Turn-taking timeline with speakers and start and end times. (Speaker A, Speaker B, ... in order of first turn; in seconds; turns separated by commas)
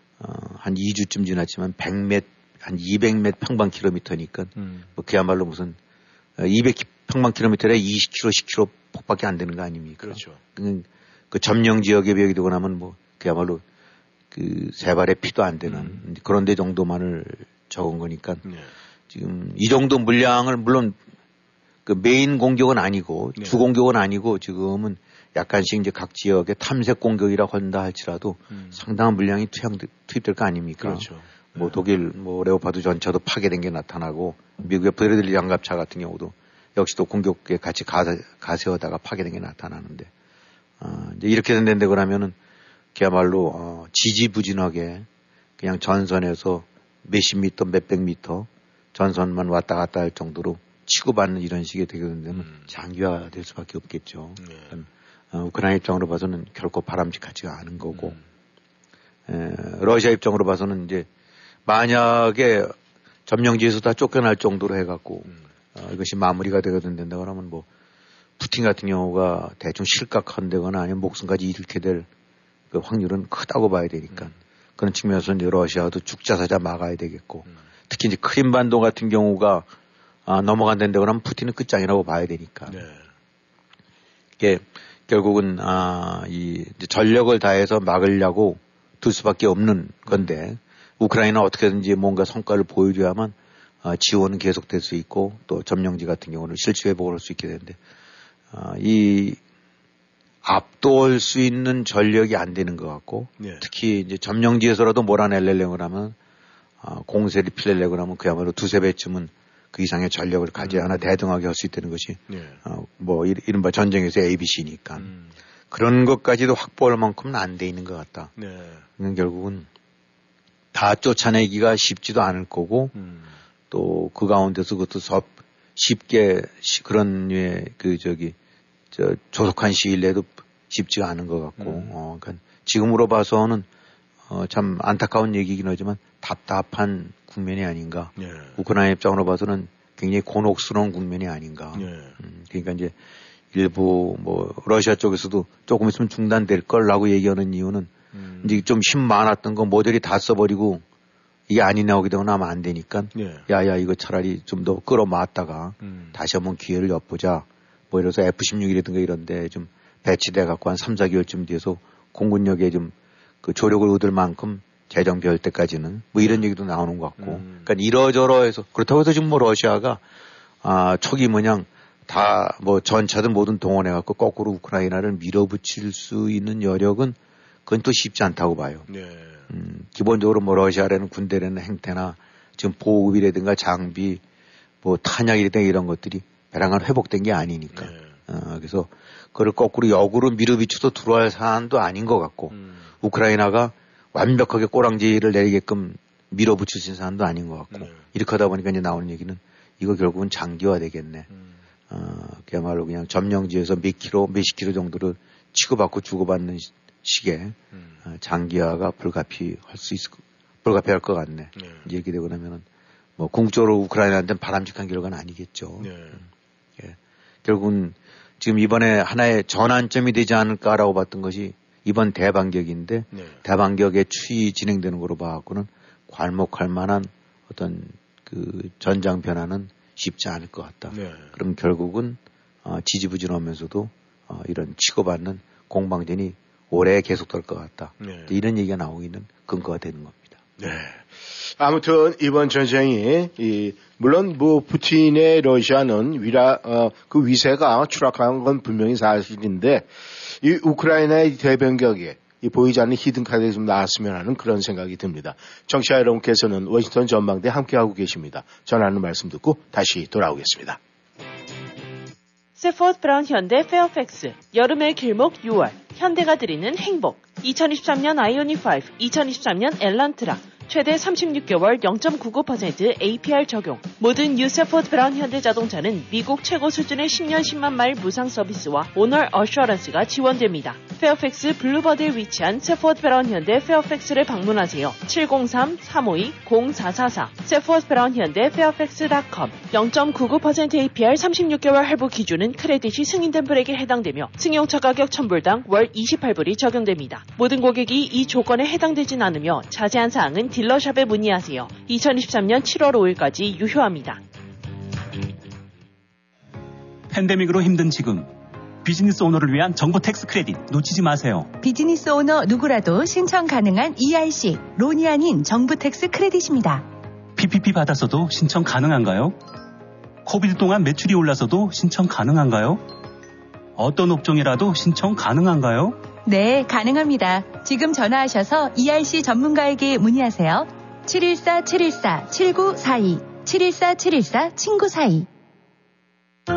Speaker A: 0.2-5.8, Speaker B: 4.6-4.9, Speaker A: 6.4-13.6, Speaker B: 10.0-10.4, Speaker A: 14.3-18.4, Speaker B: 15.6-16.0, Speaker B: 18.4-18.7, Speaker A: 19.1-21.0, Speaker A: 21.9-40.1, Speaker B: 23.4-23.6, Speaker B: 28.5-28.8, Speaker B: 30.8-31.8, Speaker A: 40.8-42.4, Speaker A: 42.9-45.0, Speaker A: 45.6-58.1, Speaker B: 52.3-52.7, Speaker B: 54.4-54.8, Speaker B: 57.9-58.2, Speaker A: 59.3-61.1, Speaker A: 61.6-62.7, Speaker A: 63.2-67.7, Speaker A: 68.4-72.1, Speaker A: 72.7-79.7, Speaker A: 80.2-82.8, Speaker B: 82.7-83.1, Speaker A: 84.4-97.8, Speaker B: 90.1-90.3, Speaker A: 98.5-99.4, Speaker A: 100.4-106.2, Speaker B: 103.4-103.6, Speaker A: 106.8-115.1, Speaker B: 110.6-111.2, Speaker B: 112.3-112.6, Speaker B: 115.0-115.3, Speaker A: 115.7-118.3, Speaker B: 118.4-118.8, Speaker A: 119.0-119.7, Speaker A: 120.7-122.9, Speaker B: 122.9-123.3, Speaker A: 123.7-128.3, Speaker A: 128.9-133.7, Speaker B: 131.6-131.9, Speaker A: 134.3-142.9, Speaker B: 138.2-138.6, Speaker B: 141.7-142.2, Speaker A: 143.5-150.8, Speaker B: 148.1-148.6, Speaker A: 151.5-170.0, Speaker B: 153.1-153.4, Speaker B: 155.8-156.2, Speaker B: 167.2-167.7, Speaker A: 170.6-178.9, Speaker B: 178.9-179.5, Speaker A: 179.5-184.2, Speaker A: 184.8-201.3, Speaker B: 187.7-188.2, Speaker B: 192.5-192.8, Speaker B: 197.7-198.0, Speaker A: 201.9-212.6, Speaker B: 207.7-208.0, Speaker B: 211.5-211.9, Speaker A: 213.2-215.9, Speaker B: 215.8-216.2, Speaker A: 216.8-240.4, Speaker B: 223.1-223.4, Speaker B: 230.9-231.3, Speaker B: 238.0-238.4, Speaker B: 240.6-260.8, Speaker C: 262.6-304.2, Speaker D: 307.1-308.3, Speaker D: 308.8-311.5, Speaker E: 311.6-316.9, Speaker D: 317.4-319.4, Speaker D: 320.2-322.9, Speaker D: 323.8-326.1, Speaker E: 326.2-335.3